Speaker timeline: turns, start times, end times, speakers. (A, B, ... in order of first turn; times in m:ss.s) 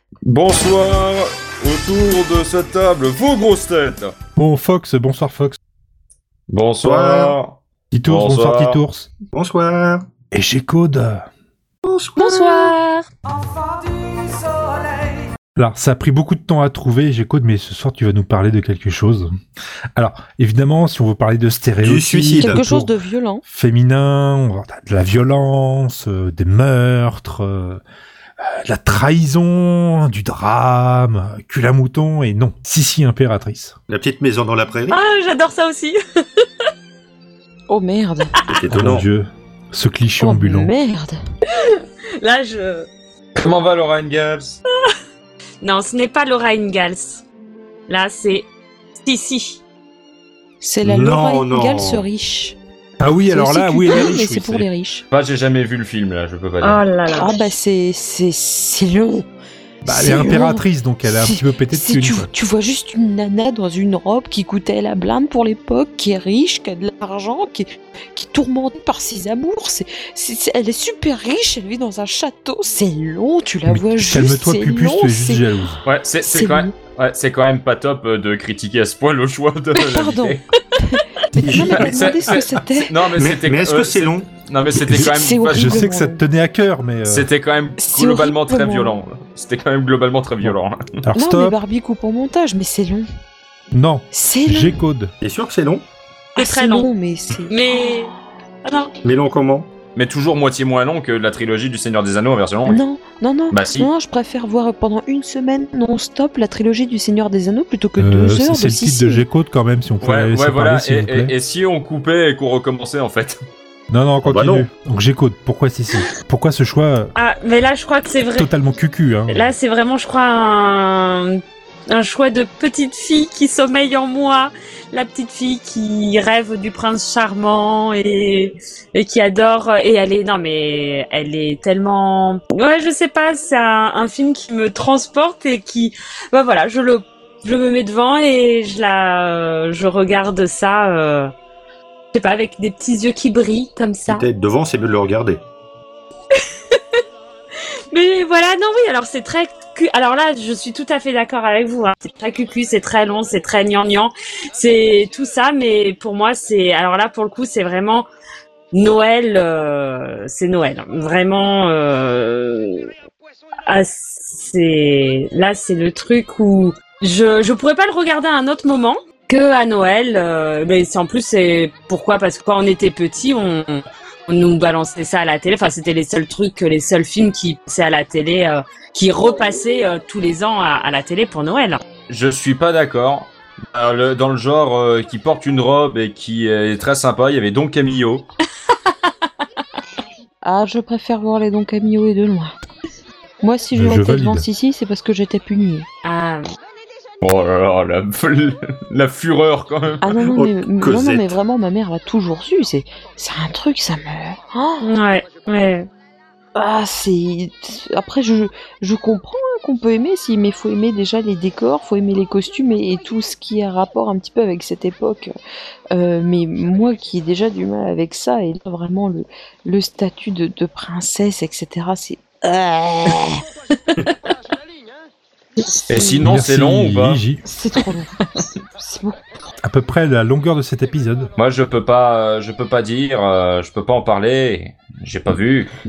0:00.3-0:04.2 A
0:04.4-0:05.6 B
0:06.5-0:08.8 A
0:06.8-0:07.4 C
0:07.9-0:09.1 B
0:09.3-0:10.1 C
0:10.3-0:11.3 B
0:11.8-0:12.7 C
0:12.2-0:13.1 D
0:14.0-0:14.3 D
0:15.6-0:19.3 B
0:20.0-0:22.9 B
0:21.8-0:22.6 C
0:22.4-0:23.4 E
0:23.5-0:27.8 B
0:28.4-0:33.8 B
0:33.9-0:35.0 C
0:34.9-0:36.7 D
0:37.7-0:38.3 E
0:38.3-0:38.6 D
0:38.5-0:39.1 C
0:38.7-0:40.7 B
0:40.2-0:41.2 E
0:41.5-0:42.9 D
0:43.4-0:44.6 A
0:45.6-0:47.2 D
0:47.9-0:48.5 D
0:49.0-0:49.6 D
0:50.6-0:52.6 E
0:50.8-0:52.1 C
0:53.0-0:54.7 B
0:53.2-0:55.0 E
0:55.1-0:56.8 A
0:56.6-0:57.4 D
0:57.1-0:59.3 E
0:59.8-1:15.5 E
0:59.8-1:02.3 B
1:13.7-1:15.8 B
1:15.9-1:20.4 A
1:16.2-1:16.7 E
1:19.8-1:23.0 E
1:21.4-1:22.1 C
1:21.6-1:25.8 A
1:23.2-1:24.3 C
1:24.9-1:27.3 B
1:25.0-1:26.2 E
1:27.0-1:30.8 A
1:27.8-1:29.0 E
1:30.4-1:31.6 B
1:31.2-1:33.1 E
1:33.7-1:35.1 B
1:34.1-1:34.8 E
1:35.2-1:35.8 C
1:36.4-1:36.9 D
1:36.4-1:37.6 E
1:37.5-1:38.1 D
1:38.6-1:38.9 D
1:39.0-1:39.7 C
1:40.0-1:42.8 A
1:42.7-1:49.2 E
1:43.5-1:43.9 A
1:48.0-1:51.3 B
1:50.0-1:53.4 A
1:53.9-1:57.1 B
1:54.2-1:54.7 C
1:57.2-1:58.5 D
1:58.3-1:59.5 B
1:59.3-2:21.3 D
2:22.1-2:24.3 D
2:24.1-2:25.4 C
2:26.3-2:27.0 D
2:27.9-2:38.1 D
2:38.7-2:42.9 D
2:43.7-3:01.8 D
3:02.1-3:08.3 A
3:08.7-3:09.3 D
3:10.4-3:12.5 E
3:13.4-3:15.9 E
3:13.7-3:14.5 B
3:16.0-3:16.4 D
3:17.2-3:20.1 A
3:20.0-3:24.9 E
3:20.2-3:21.4 C
3:24.8-3:25.9 D
3:26.6-3:35.3 E
3:35.9-3:43.3 E
3:45.9-3:47.2 A
3:46.2-3:47.4 B
3:47.5-3:48.2 E
3:48.8-3:49.4 E
3:49.6-3:51.3 B
3:51.4-3:55.7 A